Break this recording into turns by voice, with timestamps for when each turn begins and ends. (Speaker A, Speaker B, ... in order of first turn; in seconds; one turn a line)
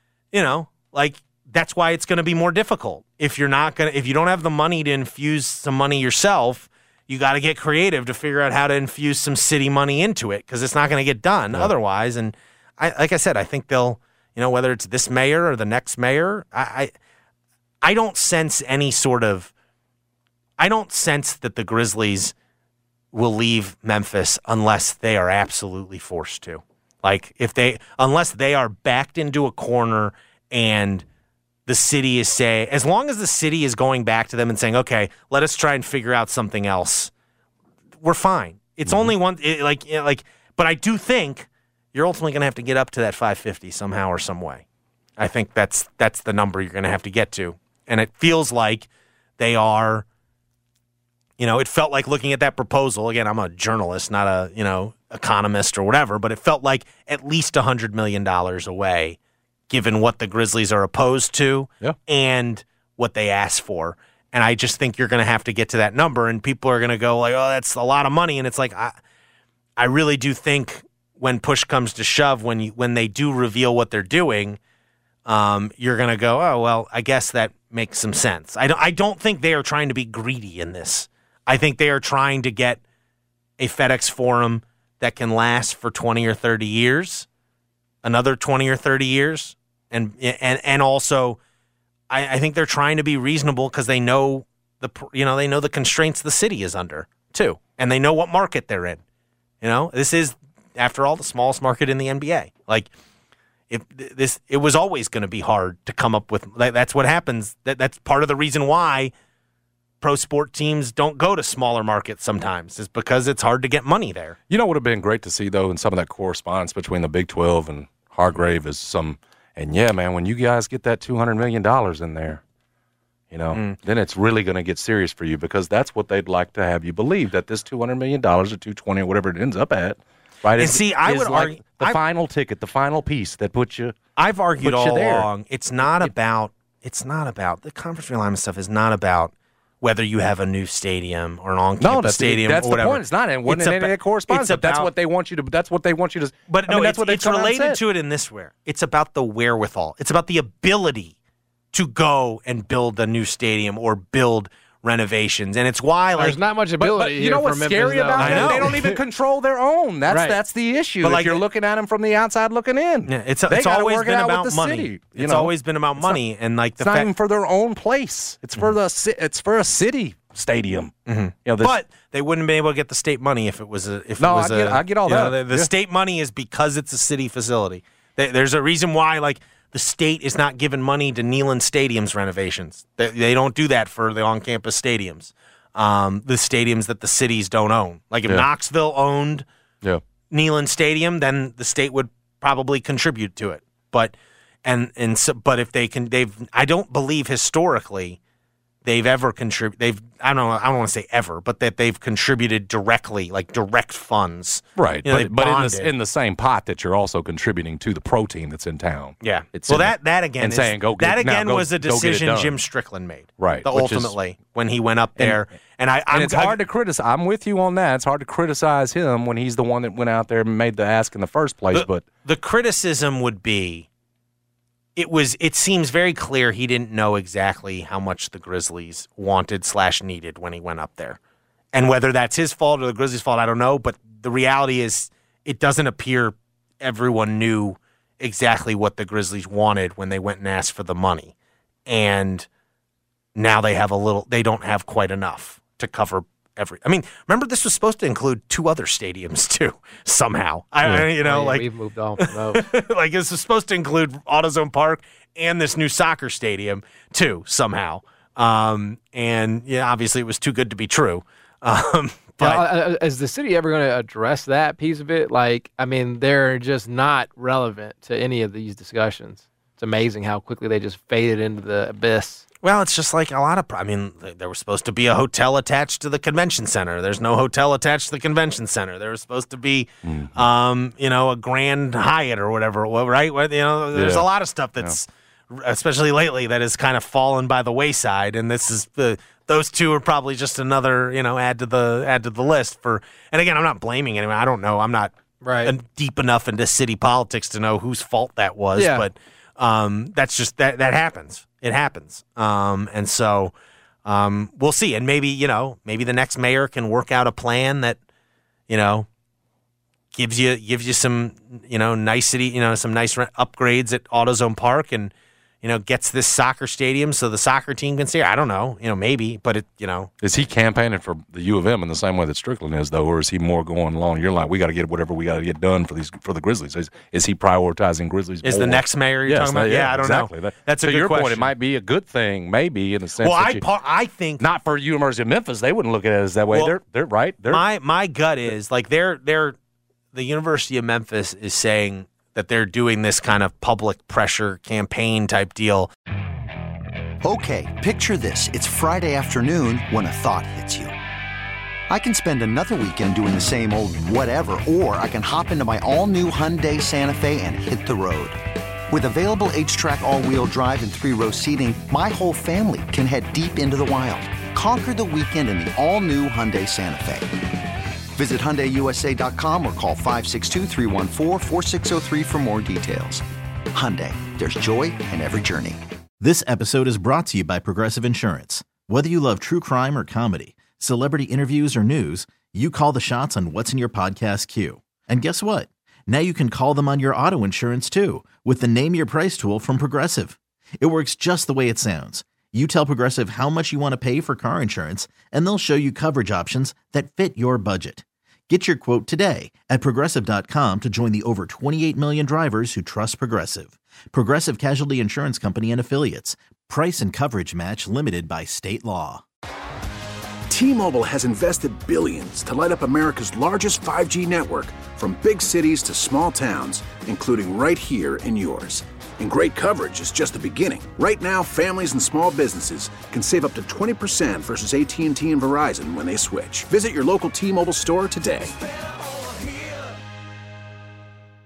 Speaker A: 0.3-16.9
Speaker A: 17.8-19.5
Speaker A: 20.6-22.3
Speaker A: 23.1-31.0
Speaker A: 31.7-37.1
Speaker A: 38.0-44.6
Speaker A: 45.2-48.9
Speaker A: 49.4-50.0
Speaker A: 51.4-59.2
Speaker A: 59.7-68.9
Speaker A: 69.8-74.6
Speaker A: 75.2-82.8
Speaker A: 83.6-87.3
Speaker A: 88.0-91.4
Speaker A: 92.1-99.0
Speaker A: 99.6-102.9
Speaker A: 103.7-109.1
Speaker A: 110.0-114.3
Speaker B: 114.5-122.4
Speaker B: 123.3-133.9
Speaker A: 123.5-123.8
Speaker A: 130.5-132.0
Speaker A: 134.2-144.9
Speaker B: 134.6-135.3
Speaker B: 135.8-136.1
Speaker B: 141.8-147.8
Speaker A: 146.5-151.1
Speaker A: 151.7-156.4
Speaker C: 156.2-159.0
Speaker B: 156.8-166.2
Speaker A: 158.2-158.8
Speaker C: 160.1-160.4
Speaker A: 161.0-161.4
Speaker A: 163.1-167.1
Speaker B: 166.8-170.9
Speaker A: 171.1-189.4
Speaker B: 171.4-171.8
Speaker B: 174.2-175.7
Speaker A: 190.3-194.1
Speaker A: 194.6-198.2
Speaker A: 198.8-205.9
Speaker B: 204.8-212.6
Speaker A: 209.2-216.6
Speaker B: 213.4-214.2
Speaker B: 215.2-215.5
Speaker B: 216.1-222.1
Speaker A: 221.7-223.9
Speaker A: 224.9-231.2
Speaker A: 231.7-241.3
Speaker A: 241.9-242.5
Speaker A: 243.3-251.7
Speaker C: 250.8-252.6
Speaker A: 252.3-262.7
Speaker C: 262.4-272.4
Speaker A: 272.6-303.5
Speaker B: 280.0-280.4
Speaker B: 283.9-284.2
Speaker C: 295.4-295.7
Speaker C: 298.7-299.1
Speaker A: 304.0-308.0
Speaker A: 308.7-309.1
Speaker A: 310.1-315.1
Speaker A: 315.6-320.1
Speaker B: 320.2-333.6
Speaker A: 328.4-331.5
Speaker A: 333.2-334.4
Speaker B: 334.4-337.6
Speaker A: 336.5-336.8
Speaker A: 337.4-339.6
Speaker A: 340.1-345.9
Speaker D: 347.2-350.9
Speaker D: 351.9-367.4
Speaker D: 368.1-375.8
Speaker E: 376.2-409.2
Speaker F: 410.5-428.6